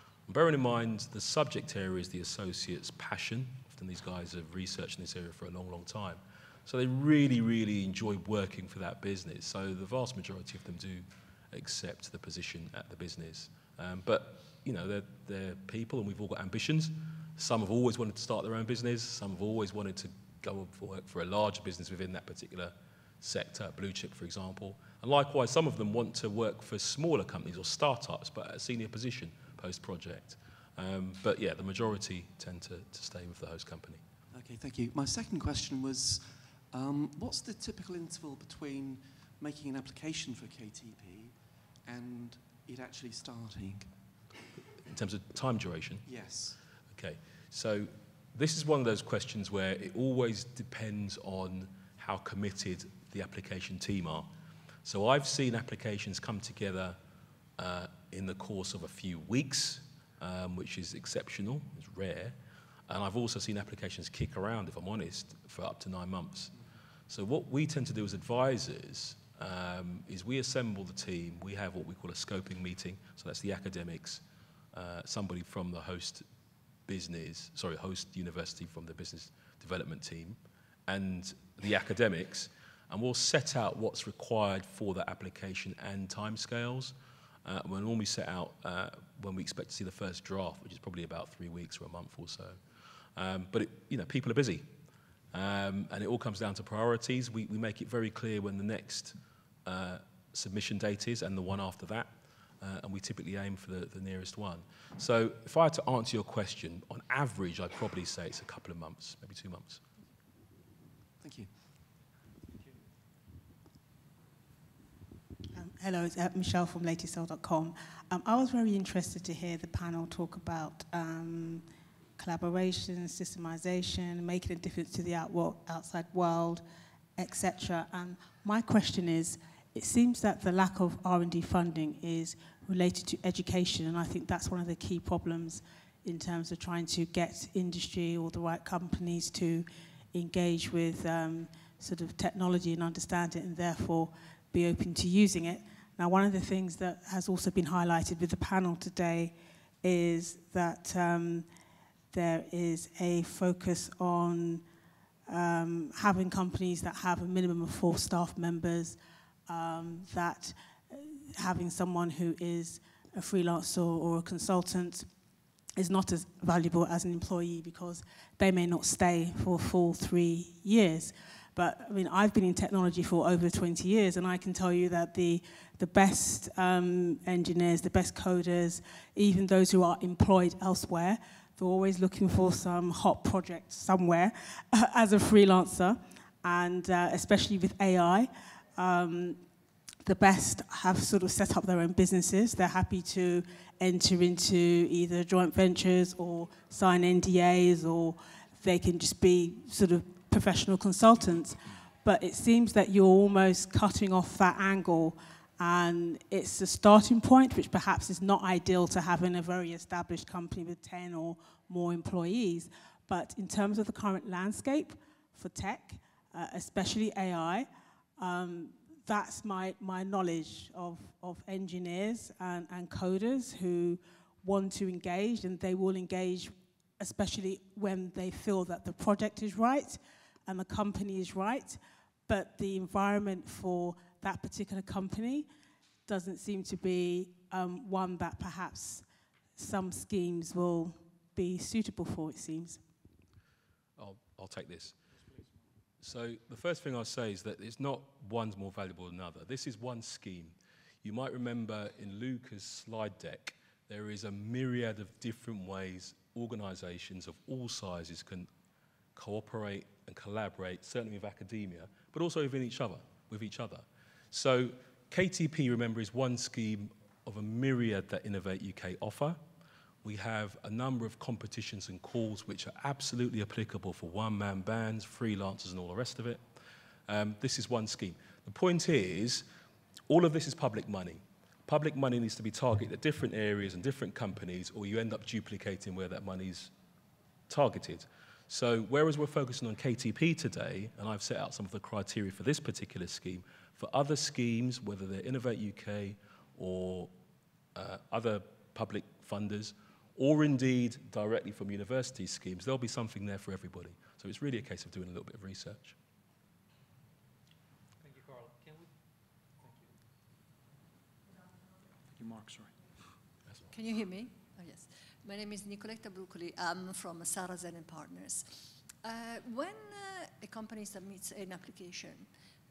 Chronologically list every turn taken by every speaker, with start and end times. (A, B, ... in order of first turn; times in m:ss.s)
0:00.3-0:34.0 A
0:34.3-0:44.3 B
0:44.9-0:46.1 A
0:46.0-0:46.6 B
0:46.9-0:54.3 A
0:54.8-0:57.0 A
0:57.6-1:02.4 A
1:02.9-1:06.6 A
1:07.1-1:16.3 A
1:16.8-1:32.6 A
1:33.1-1:34.8 A
1:35.3-1:49.8 A
1:51.2-1:51.7 B
1:55.5-2:06.6 C
2:07.2-2:31.5 C
2:32.1-2:34.6 C
2:35.3-2:45.1 C
2:45.8-3:09.4 C
3:10.0-3:55.5 C
3:56.1-4:02.8 C
4:04.0-4:05.0 A
4:05.2-4:05.6 D
4:06.0-4:18.5 A
4:19.1-4:29.4 A
4:30.0-4:36.4 A
4:37.1-4:39.5 A
4:40.1-4:46.7 A
4:47.5-4:57.1 A
4:57.7-5:06.0 A
5:08.0-5:08.9 D
5:09.6-5:09.9 D
5:12.1-5:13.2 D
5:13.7-5:22.3 E